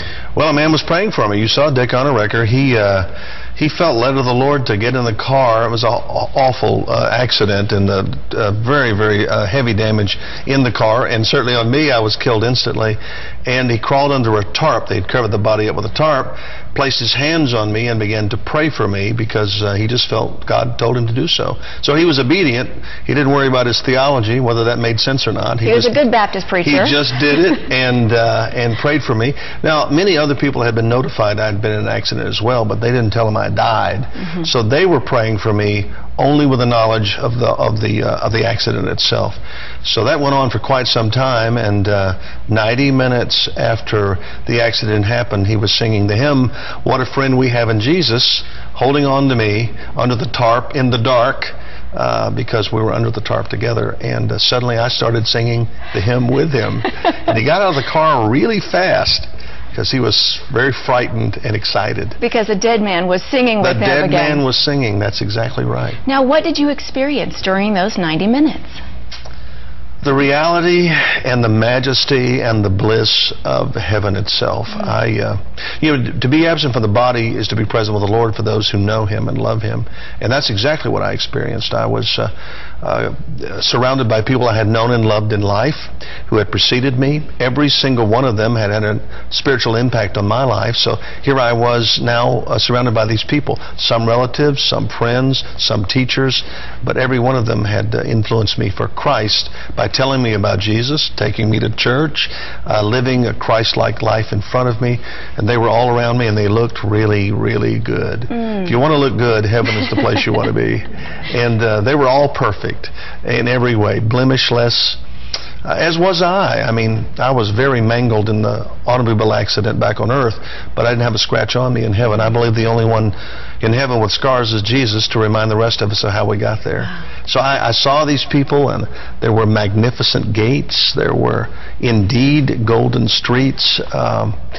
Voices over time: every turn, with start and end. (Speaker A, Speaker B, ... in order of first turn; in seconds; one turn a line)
Speaker A: 0.3-26.1
Speaker B: 25.6-27.0
Speaker A: 26.6-62.2
Speaker B: 62.2-64.4
Speaker A: 63.6-66.0
Speaker B: 66.1-68.8
Speaker A: 70.0-115.0
Speaker A: 115.7-134.4